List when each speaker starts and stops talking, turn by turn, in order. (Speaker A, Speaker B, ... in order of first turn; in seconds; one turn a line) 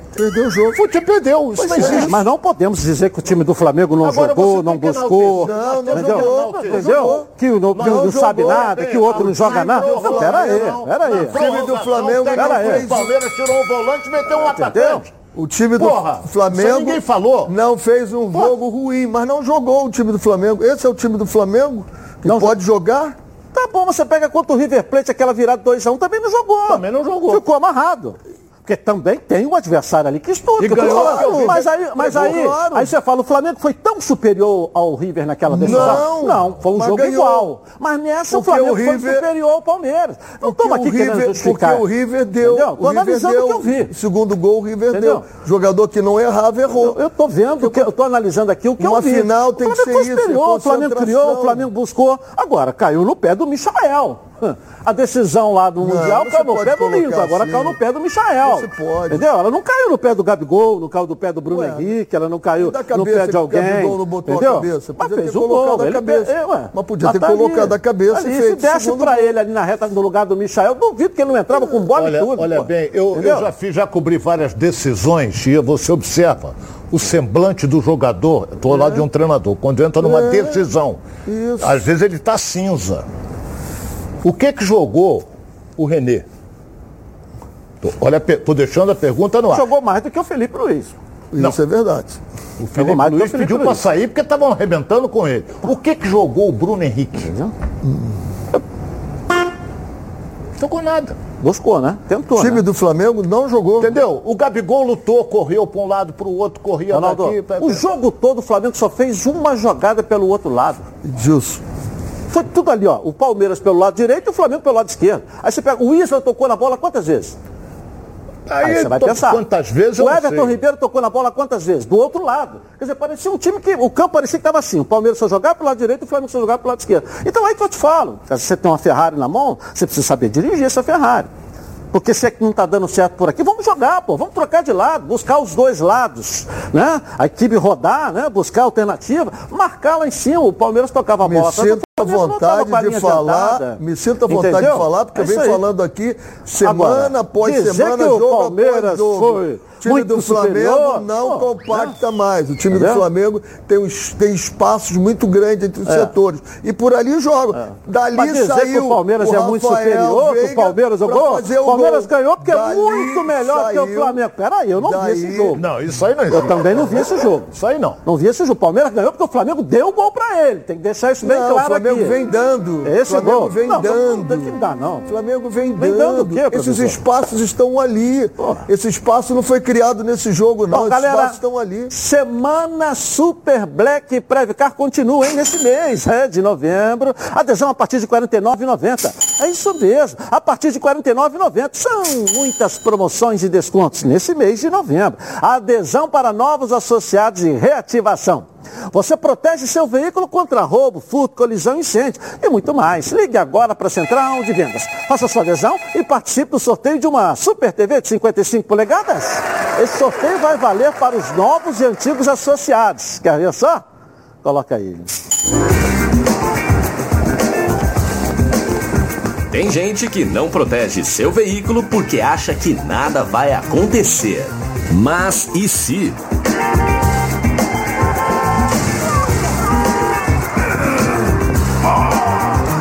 Speaker A: 0.1-0.8
Speaker B: 0.7-2.2
Speaker C: 1.6-11.4
Speaker A: 1.7-2.1
Speaker B: 4.0-7.2
Speaker A: 5.4-8.7
Speaker B: 7.7-15.1
Speaker A: 9.9-13.1
Speaker C: 12.3-12.9
Speaker C: 14.3-15.0
Speaker A: 15.3-23.1
Speaker B: 15.8-17.5
Speaker C: 22.2-22.6
Speaker C: 23.5-41.8
Speaker B: 26.7-27.4
Speaker B: 30.6-31.6
Speaker A: 30.6-32.9
Speaker A: 35.5-37.5
Speaker B: 35.6-36.1
Speaker A: 38.3-39.3
Speaker A: 40.4-47.0
Speaker C: 42.4-43.9
Speaker C: 44.9-45.2
Speaker C: 46.7-73.5
Speaker A: 47.6-47.9
Speaker A: 48.8-51.7
Speaker A: 55.8-57.8
Speaker A: 58.4-59.2
Speaker A: 61.5-61.9
Speaker A: 62.6-69.3
Speaker B: 71.9-81.0
Speaker A: 78.7-79.0
Speaker A: 80.0-80.6
Speaker A: 81.2-81.8
Speaker B: 81.6-83.0
Speaker B: 84.2-85.2
Speaker B: 85.8-86.2
Speaker B: 87.8-89.7
Speaker C: 89.5-90.9
Speaker A: 91.3-92.2
Speaker B: 92.6-97.3
Speaker C: 92.8-93.8
Speaker C: 97.2-97.5
Speaker A: 97.8-98.2
Speaker B: 100.6-101.2
Speaker C: 101.4-102.6
Speaker A: 102.3-103.9
Speaker B: 103.8-107.8
Speaker C: 106.9-110.8
Speaker A: 111.0-111.6
Speaker C: 112.3-117.3
Speaker B: 118.5-120.6
Speaker C: 118.6-119.4
Speaker C: 120.0-131.3
Speaker C: 131.9-145.6
Speaker A: 141.2-164.2
Speaker C: 146.6-151.9
Speaker C: 152.7-153.0
Speaker C: 155.8-156.1
Speaker C: 157.5-165.6
Speaker A: 164.8-165.6
Speaker B: 165.6-168.0
Speaker C: 166.3-167.5
Speaker C: 168.0-172.2
Speaker A: 171.2-174.5
Speaker C: 172.8-175.1
Speaker A: 175.1-181.9
Speaker C: 175.8-177.0
Speaker C: 180.7-181.4
Speaker C: 181.9-213.8
Speaker C: 214.4-215.2
Speaker D: 219.5-226.2